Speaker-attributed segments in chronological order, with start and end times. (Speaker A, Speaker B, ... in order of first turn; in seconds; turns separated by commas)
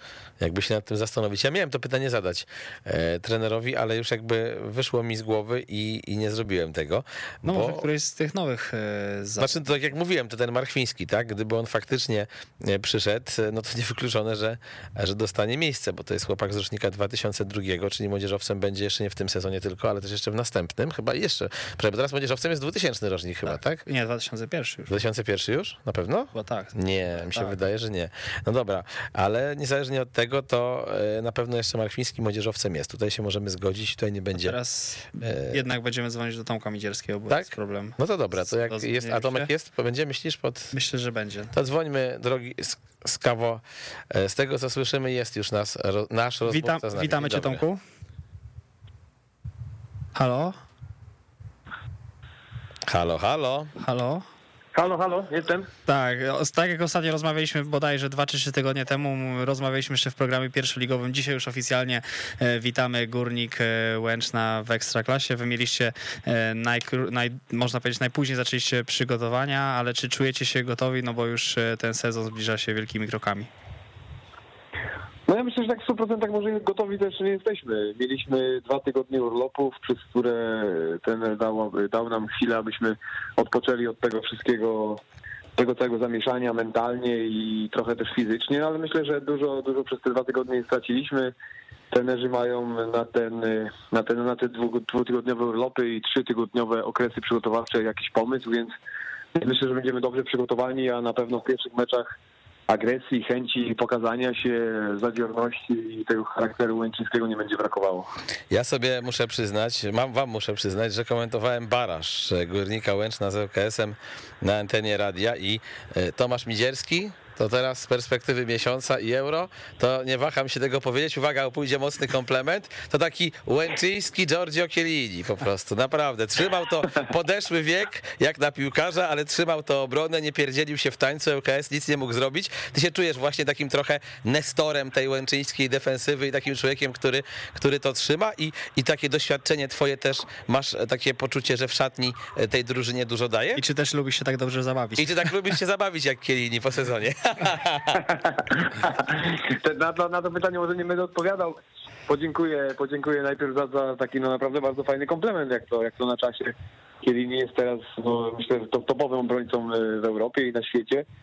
Speaker A: 0.4-7.8, Speaker B: 7.4-9.6, Speaker A: 9.4-23.8, Speaker B: 23.5-24.9, Speaker A: 24.9-34.5, Speaker B: 26.3-27.6, Speaker B: 34.4-39.5, Speaker A: 35.2-35.6, Speaker A: 37.3-40.7, Speaker B: 40.7-41.5, Speaker A: 41.5-47.6, Speaker B: 46.5-47.8, Speaker B: 50.1-50.5, Speaker A: 52.9-53.7, Speaker B: 53.8-54.2, Speaker C: 54.7-55.7, Speaker B: 55.9-73.5, Speaker C: 75.3-85.0, Speaker C: 85.5-91.3, Speaker C: 91.9-98.7, Speaker C: 99.3-102.1, Speaker C: 102.7-108.1, Speaker A: 108.5-143.6, Speaker B: 143.5-145.3, Speaker A: 145.0-148.0, Speaker C: 148.3-161.1